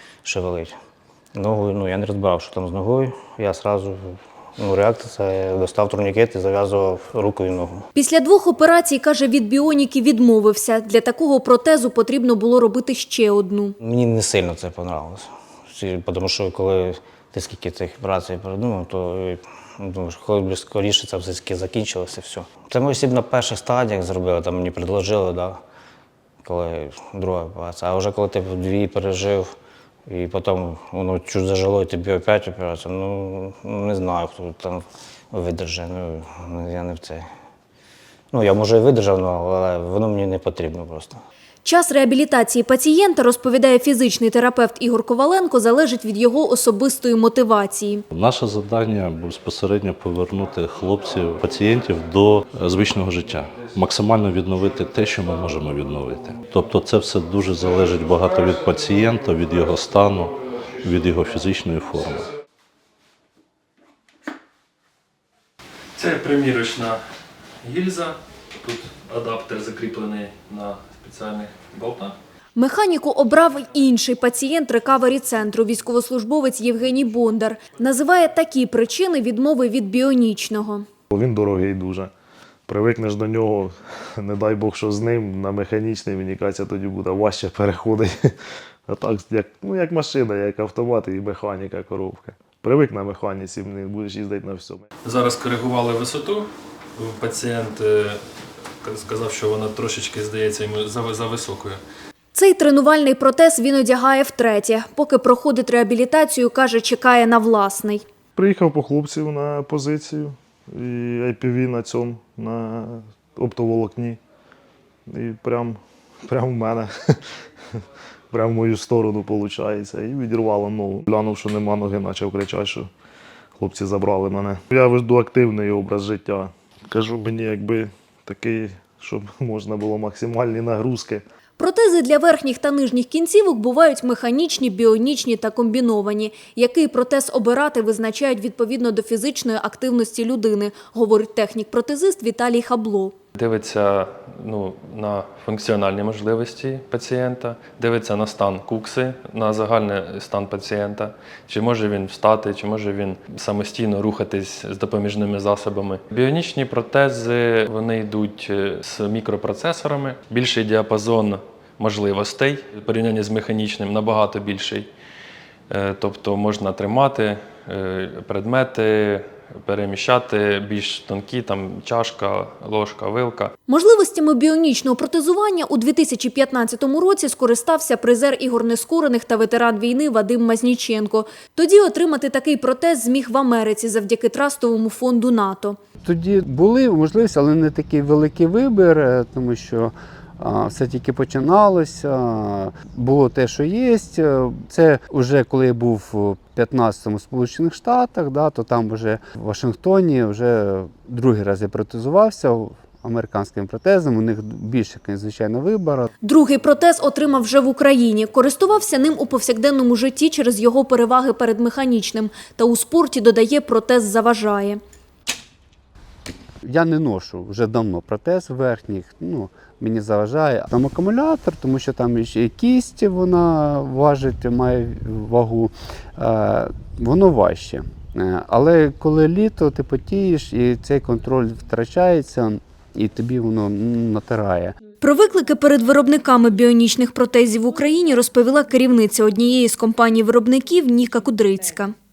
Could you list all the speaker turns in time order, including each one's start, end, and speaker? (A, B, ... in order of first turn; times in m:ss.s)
0:00.2-0:00.8 A
0:01.3-0:07.8 A
0:08.0-0:13.8 B
0:13.8-0:25.6 A
0:26.4-0:29.5 A
0:30.1-0:37.3 A
0:38.3-0:41.2 A
0:41.6-0:48.0 B
0:48.1-1:02.3 C
1:06.0-1:07.0 D
1:07.6-1:12.2 D
1:12.6-1:20.8 B
1:21.1-1:22.1 E
1:22.7-1:28.3 E
1:28.9-1:34.8 E
1:35.0-1:38.2 D
1:38.8-1:41.8 D
1:42.3-1:48.0 B
1:48.4-1:54.2 E
1:55.1-1:57.2 E
1:58.3-2:02.9 E
2:03.6-2:11.2 E
2:11.6-2:23.2 B
2:23.4-2:44.9 D
2:45.7-2:53.5 D
2:53.7-3:05.8 B
3:06.0-3:26.1 F
3:26.2-3:34.8 B
3:36.6-3:54.8 F
3:55.0-4:01.9 B